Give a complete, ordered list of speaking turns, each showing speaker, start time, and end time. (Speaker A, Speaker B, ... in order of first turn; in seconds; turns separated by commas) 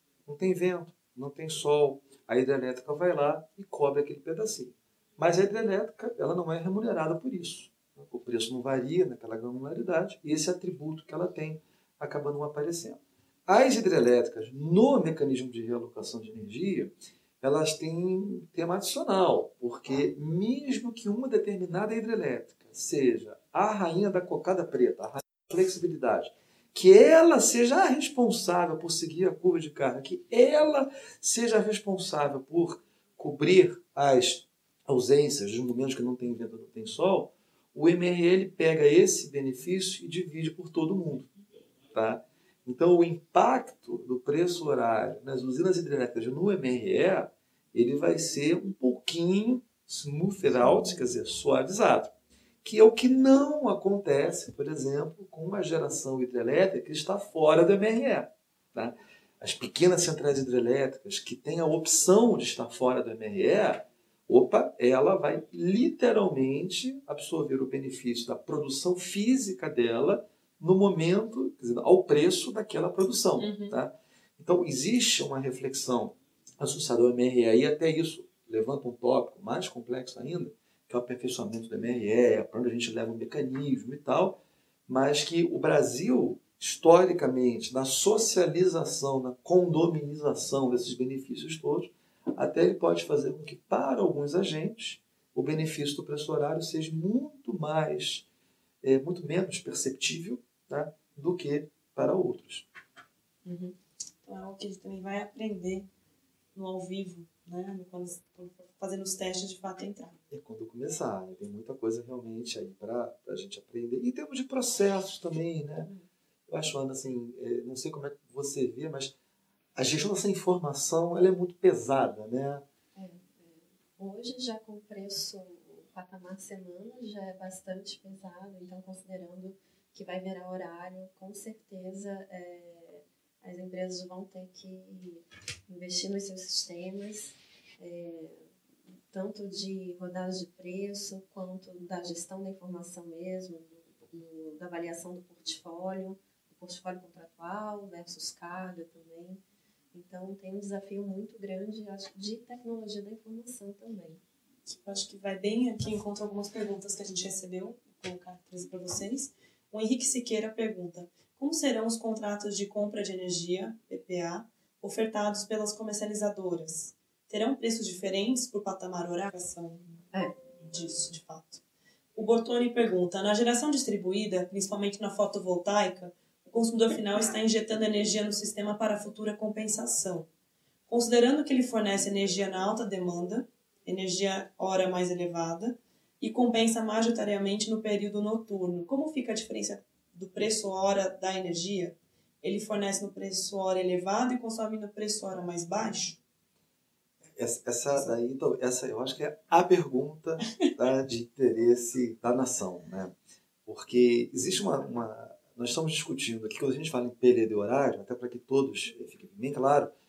Speaker A: 0.2-41.3, Speaker A: 41.9-52.1, Speaker A: 52.6-98.2, Speaker B: 73.4-73.8, Speaker A: 98.8-102.7, Speaker C: 103.5-103.7, Speaker B: 104.2-105.9, Speaker B: 106.5-110.2, Speaker A: 110.3-115.9, Speaker A: 116.5-119.1, Speaker A: 119.8-122.6, Speaker C: 123.0-138.4, Speaker C: 139.1-149.4, Speaker C: 149.9-154.2, Speaker B: 154.7-170.0, Speaker B: 170.6-171.6, Speaker B: 172.1-180.3, Speaker B: 180.9-196.2, Speaker A: 197.3-203.1, Speaker A: 203.6-209.9